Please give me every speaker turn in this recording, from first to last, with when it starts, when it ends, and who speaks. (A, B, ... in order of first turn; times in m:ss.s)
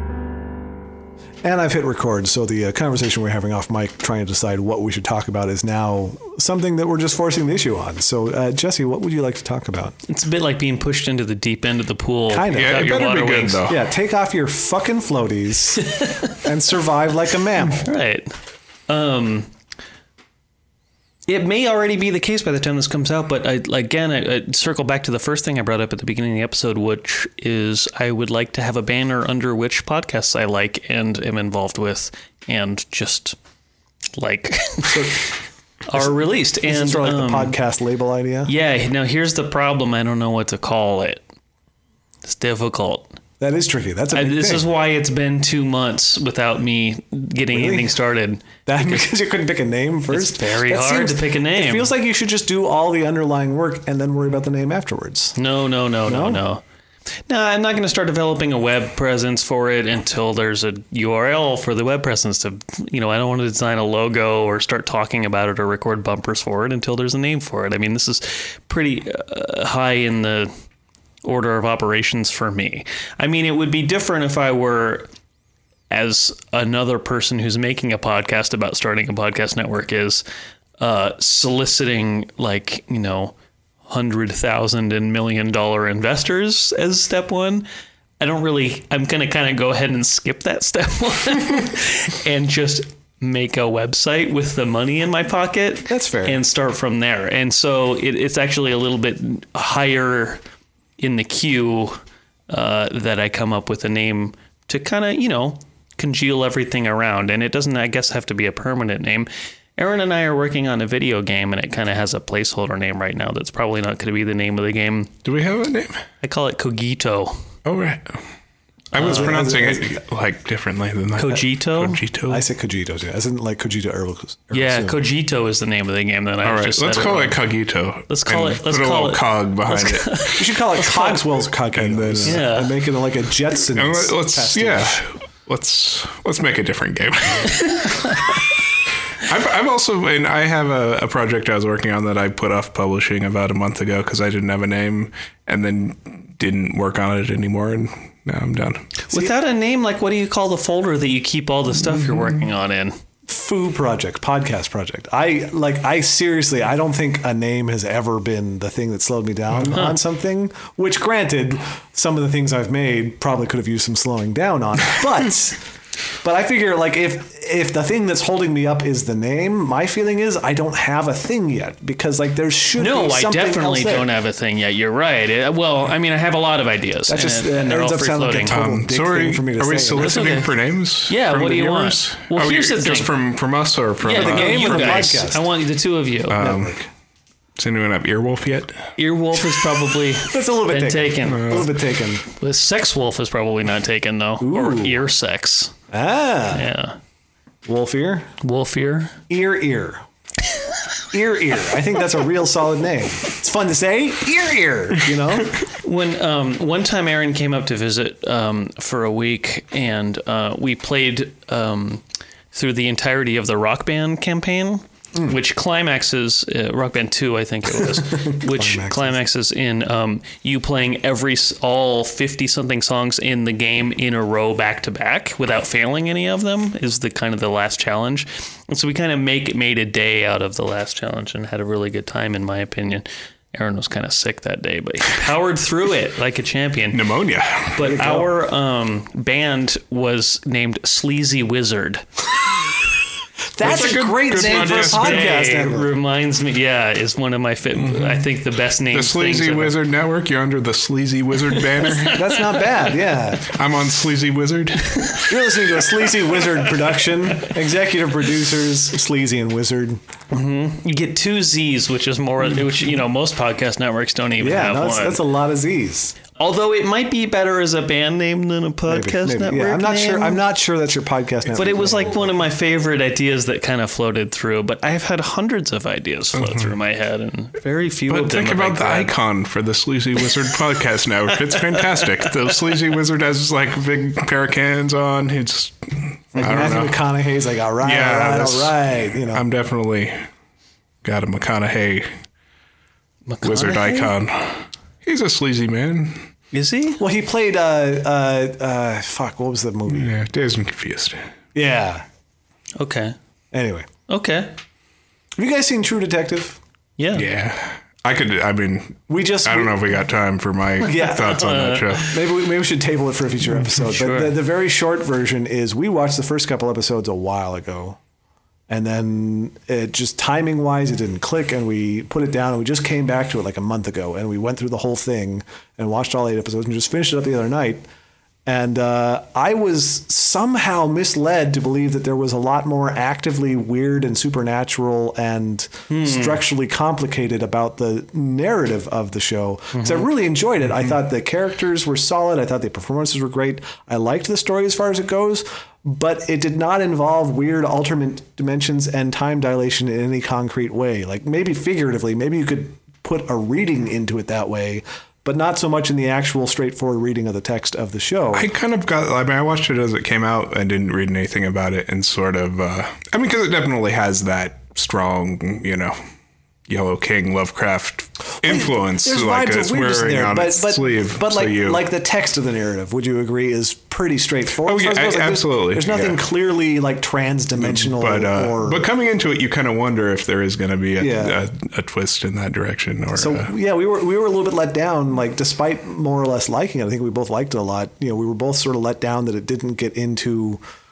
0:01.4-0:10.0 A
0:10.1-0:13.6 B
0:12.3-0:12.9 A
0:12.5-0:13.8 C
0:13.7-0:17.9 A
0:15.8-0:16.4 B
0:17.7-0:18.3 B
0:18.9-0:19.5 B
0:21.3-0:33.4 B
0:34.2-0:35.4 B
0:34.8-0:35.3 A
0:35.9-0:37.6 B
0:35.9-0:38.5 A
0:38.5-0:41.2 B
0:42.2-0:43.2 B
0:43.4-0:44.7 A
0:44.1-0:49.1 B
0:47.5-0:48.0 A
0:48.7-0:55.4 A
0:50.1-0:51.9 B
0:55.4-0:56.6 B
0:56.1-0:56.4 A
0:57.3-1:10.5 B
1:11.2-1:15.1 B
1:15.9-1:20.2 B
1:20.8-1:27.7 B
1:28.2-1:40.4 B
1:35.9-1:36.4 A
1:41.0-1:55.1 B
1:55.2-1:56.0 C
1:56.2-1:57.4 B
1:57.6-1:58.2 C
1:58.9-2:02.4 C
1:58.9-1:59.4 B
1:59.0-2:00.0 A
2:01.2-2:02.0 B
2:02.3-2:05.0 A
2:04.5-2:07.4 B
2:06.4-2:10.5 C
2:08.1-2:11.2 B
2:10.4-2:15.0 A
2:11.7-2:12.5 C
2:12.2-2:12.8 B
2:13.7-2:18.3 C
2:17.8-2:18.1 B
2:19.2-2:28.9 C
2:29.0-2:33.0 B
2:33.3-2:45.6 A
2:39.7-2:40.0 B
2:46.2-2:54.1 A
2:52.8-2:58.6 B
2:57.1-3:00.2 A
2:58.5-3:05.2 C
2:59.9-3:00.5 B
3:01.1-3:03.1 B
3:04.0-3:06.4 B
3:04.1-3:05.5 A
3:06.3-3:06.8 C
3:06.3-3:06.9 A
3:07.6-3:08.9 C
3:09.0-3:11.7 B
3:10.2-3:12.2 A
3:11.3-3:11.7 C
3:12.3-3:15.8 B
3:14.4-3:15.0 A
3:15.9-3:16.7 A
3:16.5-3:17.0 B
3:17.7-3:18.3 A
3:18.4-3:19.2 B
3:19.3-3:20.0 A
3:21.1-3:25.5 A
3:25.8-3:57.0 B
3:38.0-3:39.2 A
3:56.9-3:57.8 C
3:57.8-4:02.0 B
3:57.8-3:58.3 A
4:03.6-4:06.0 A
4:03.6-4:05.4 C
4:03.6-4:09.8 B
4:07.7-4:08.3 C
4:08.9-4:12.4 C
4:11.6-4:12.1 B
4:12.1-4:13.5 A
4:13.4-4:15.2 C
4:15.3-4:20.0 A
4:20.3-4:25.2 B
4:24.4-4:26.2 A
4:26.4-4:30.4 B
4:28.9-4:32.4 A
4:31.5-4:39.1 B
4:36.3-4:36.8 C
4:38.1-4:47.0 C
4:41.4-4:42.3 B
4:46.4-4:49.4 A
4:47.8-4:48.8 C
4:49.3-4:50.2 C
4:51.0-4:52.1 C
4:53.3-4:54.1 B
4:53.4-4:56.2 C
4:56.5-4:57.0 B
4:57.0-5:00.2 A
4:59.9-5:01.3 C
5:01.6-5:02.1 A
5:02.8-5:03.2 B
5:03.5-5:03.9 A
5:04.1-5:04.6 B
5:05.4-5:06.6 A
5:07.0-5:07.3 B
5:07.1-5:12.2 C
5:09.1-5:09.8 A
5:10.8-5:11.4 A
5:10.8-5:12.2 B
5:12.1-5:18.0 A
5:13.7-5:14.4 B
5:18.7-5:27.8 A
5:28.5-5:58.5 A
5:35.9-5:36.4 B
5:39.8-5:40.0 B
5:58.3-6:06.0 C
6:06.7-6:11.8 C
6:08.4-6:18.9 A
6:14.6-6:16.2 C
6:17.6-6:23.5 C
6:21.0-6:21.4 A
6:23.1-6:30.6 A